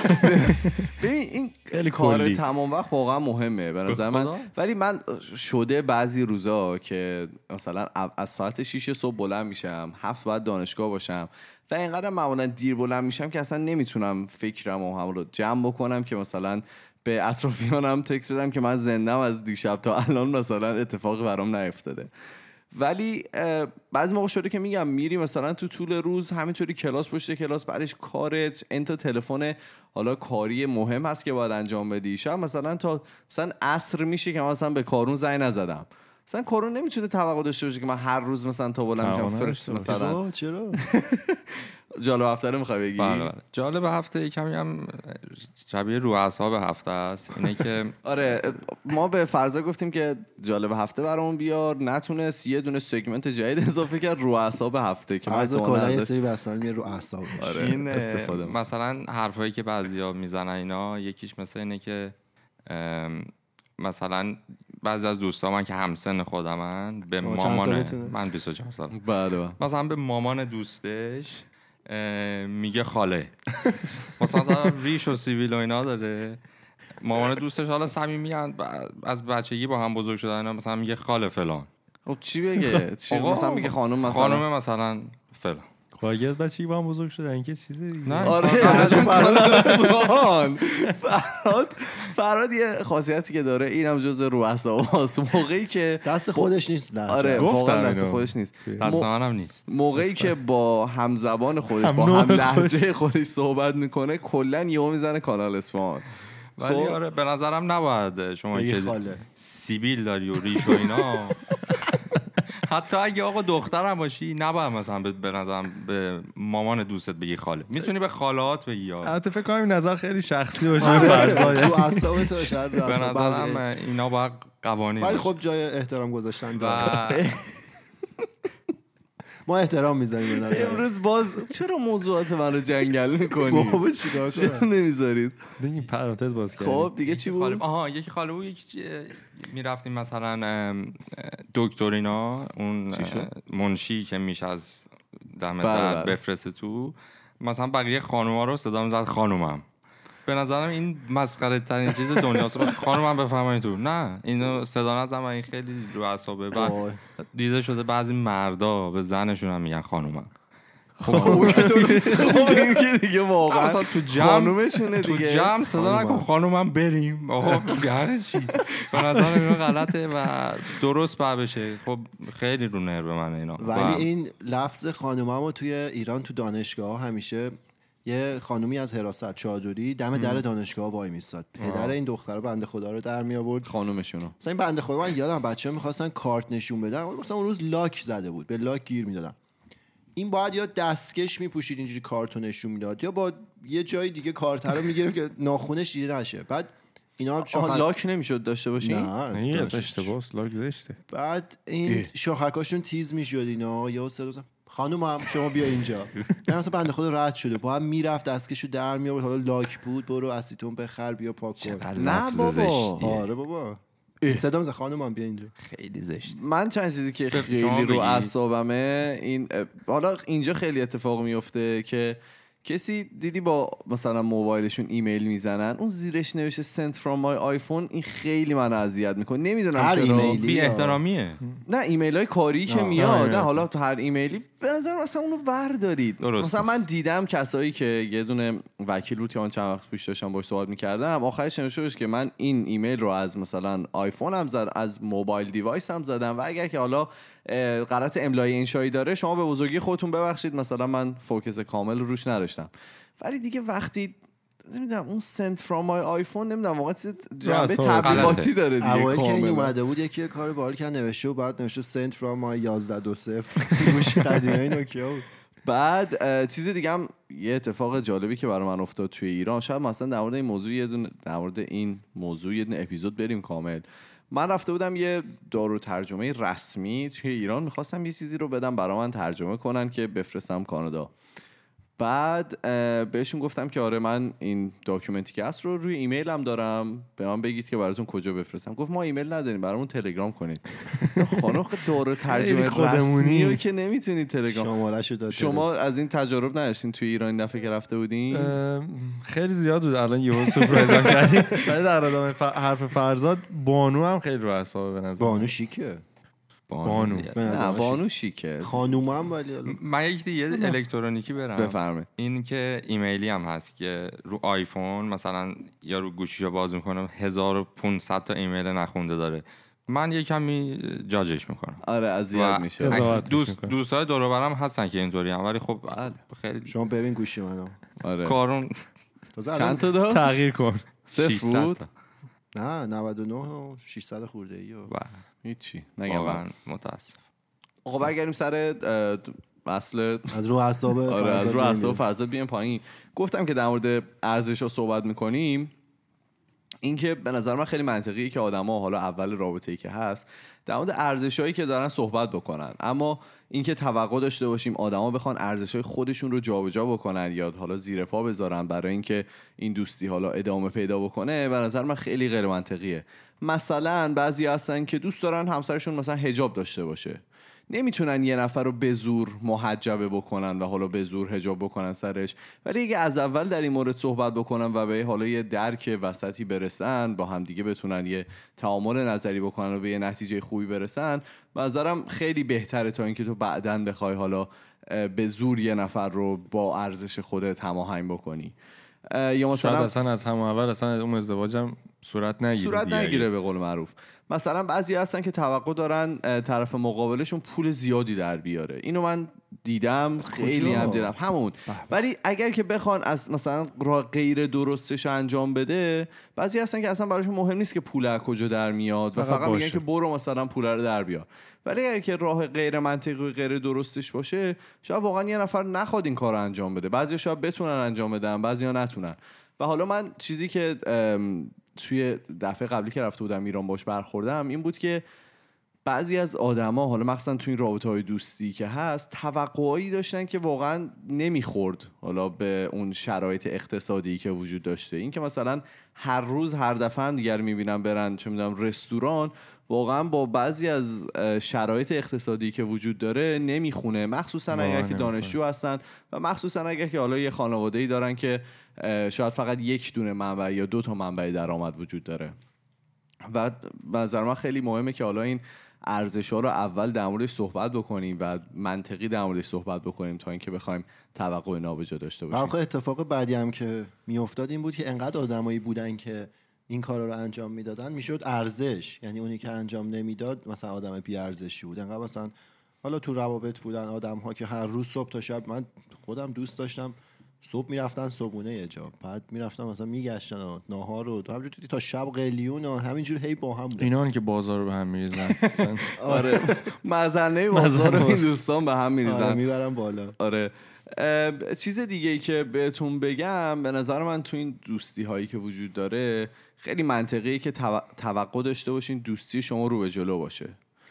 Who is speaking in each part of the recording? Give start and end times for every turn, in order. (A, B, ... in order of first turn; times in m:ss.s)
0:00.2-0:22.1 A
0:00.2-0:00.9 B
0:01.7-0:02.4 B
0:03.9-0:04.5 C
0:22.7-0:40.2 A
0:39.0-0:40.0 B
0:39.8-0:40.8 D
0:40.8-0:43.3 A
0:43.0-0:47.9 C
0:48.0-0:56.1 A
0:55.2-0:57.7 D
0:57.4-0:58.6 A
0:57.4-1:02.1 C
1:02.7-1:09.0 C
1:07.2-1:08.1 D
1:08.9-1:09.6 A
1:09.6-1:16.4 C
1:17.0-1:21.7 C
1:22.0-1:24.4 A
1:23.1-1:25.7 C
1:25.9-1:29.2 B
1:28.0-1:29.8 C
1:28.2-1:36.5 A
1:28.6-1:29.8 D
1:36.0-1:37.5 D
1:37.1-1:39.1 A
1:37.4-1:38.9 B
1:38.8-1:39.6 C
1:39.6-1:46.0 A
1:40.0-1:40.3 B
1:41.8-1:42.8 B
1:46.6-1:59.2 C
1:46.6-1:47.0 A
1:48.5-1:49.2 D
1:59.0-2:02.5 B
2:00.8-2:03.6 D
2:00.8-2:01.5 C
2:02.8-2:05.3 C
2:05.0-2:07.2 D
2:06.6-2:07.3 C
2:07.0-2:07.5 A
2:09.4-2:10.8 D
2:10.4-2:15.4 A
2:13.4-2:14.6 D
2:15.6-2:16.9 B
2:16.6-2:17.6 A
2:17.1-2:29.6 C
2:22.9-2:23.3 A
2:25.6-2:26.2 A
2:30.2-2:40.3 C
2:36.5-2:37.0 D
2:41.0-2:45.5 A
2:41.0-2:42.6 C
2:41.0-2:41.9 B
2:43.5-2:54.1 C
2:45.7-2:46.3 D
2:48.5-2:49.8 A
2:53.6-2:57.5 D
2:58.0-3:03.7 D
3:03.6-3:04.3 A
3:04.4-3:09.4 D
3:10.2-3:17.8 D
3:17.5-3:19.1 A
3:18.8-3:20.1 D
3:19.3-3:21.0 B
3:21.1-3:32.2 D
3:31.6-3:33.2 C
3:31.9-3:33.1 A
3:33.0-3:33.8 D
3:34.3-3:35.5 D
3:35.6-3:36.4 C
3:36.2-3:50.4 A
3:37.3-3:38.3 C
3:49.7-3:51.0 D
3:50.2-3:51.4 C
3:51.7-4:19.7 A
3:52.7-3:53.4 D
3:53.0-3:53.4 B
3:56.2-3:56.8 C
4:17.4-4:18.4 B
4:18.0-4:18.5 C
4:18.8-4:25.2 D
4:25.6-4:41.1 A
4:42.0-4:54.7 A
4:52.2-4:53.6 B
4:54.5-4:55.6 D
4:55.3-4:58.6 A
4:58.3-5:05.5 B
5:00.7-5:01.7 D
5:05.2-5:06.0 D
5:06.7-5:07.8 C
5:06.8-5:07.3 B
5:07.3-5:08.0 D
5:07.4-5:08.8 A
5:08.6-5:09.8 D
5:09.6-5:26.7 C
5:11.6-5:12.1 A
5:21.8-5:23.1 A
5:22.8-5:23.7 B
5:25.9-5:26.2 A
5:26.7-5:27.8 D
5:28.0-5:28.4 A
5:28.2-5:28.8 C
5:29.4-5:29.8 D
5:29.5-5:30.4 A
5:30.1-5:30.9 B
5:31.0-5:31.8 A
5:31.1-5:31.9 C
5:32.5-5:34.9 D
5:34.9-5:35.2 C
5:35.4-5:36.4 A
5:36.1-5:37.1 C
5:37.8-5:40.4 A
5:40.3-5:42.0 D
5:41.1-5:45.7 A
5:46.8-6:28.5 A
6:29.1-6:29.9 A
6:29.5-6:33.3 B
6:32.5-7:05.0 A
6:40.4-6:41.1 D
6:40.6-6:41.0 B
6:49.2-6:49.8 B
7:05.8-7:32.3 A
7:24.5-7:25.4 B
7:33.3-7:42.5 A
7:42.3-8:03.9 D
8:03.8-8:05.8 B
8:05.4-8:09.4 A
8:06.0-8:06.6 D
8:07.5-8:08.3 B
8:09.0-8:10.2 D
8:10.2-8:20.6 A